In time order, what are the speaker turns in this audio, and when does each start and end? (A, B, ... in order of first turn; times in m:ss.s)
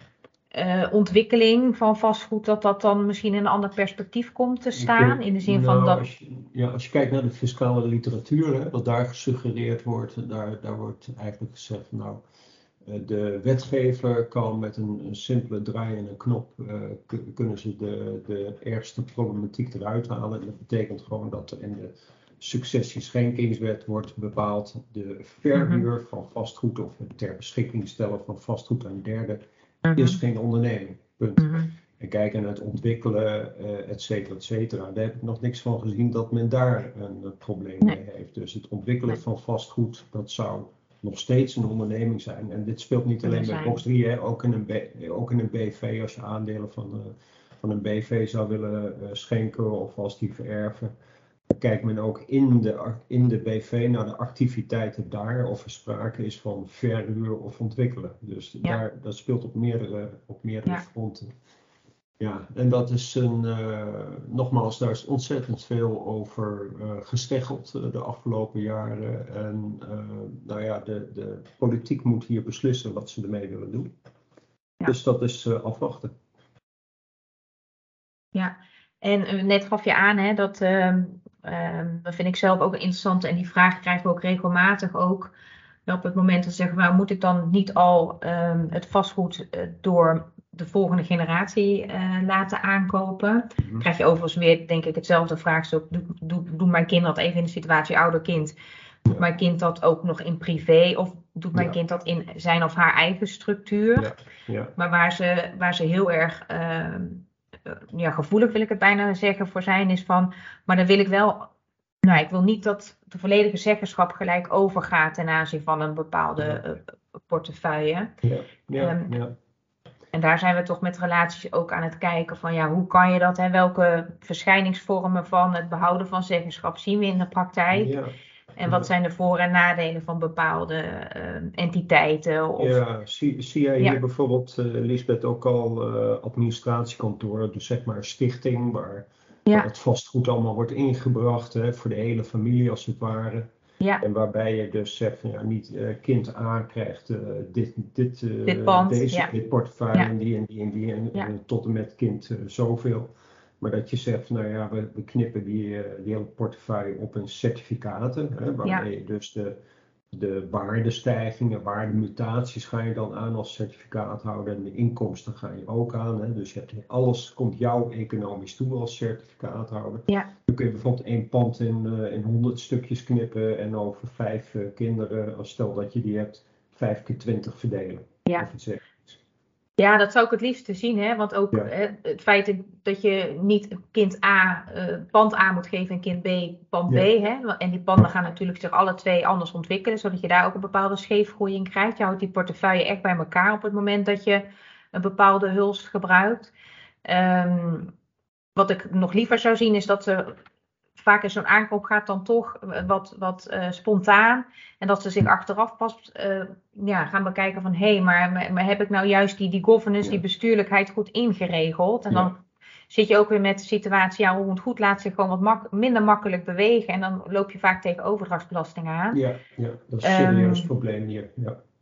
0:00.5-0:06.0 A
0:04.7-0:12.2 B
0:12.8-0:29.4 B
0:25.5-0:25.8 A
0:29.8-0:30.2 A
0:29.9-0:50.9 B
0:31.4-0:31.7 A
0:43.2-0:43.8 A
0:51.5-1:01.3 B
1:02.2-1:13.9 B
1:14.9-1:16.1 B
1:18.3-1:25.3 A
1:25.9-1:38.6 A
1:33.6-1:33.9 B
1:39.1-1:44.1 A
1:44.0-1:44.8 B
1:44.8-1:51.5 A
1:52.0-1:58.1 A
1:58.2-1:59.4 B
1:58.8-1:59.2 A
2:00.1-2:08.0 A
2:07.7-2:08.9 B
2:08.6-2:12.8 A
2:12.6-2:23.5 B
2:24.0-2:39.6 B
2:28.5-2:29.3 A
2:40.1-2:59.2 B
2:59.8-3:16.5 A
3:17.0-3:17.9 A
3:18.6-3:20.4 A
3:21.0-3:32.4 A
3:32.9-3:39.2 A
3:39.1-3:41.6 B
3:40.0-3:40.7 A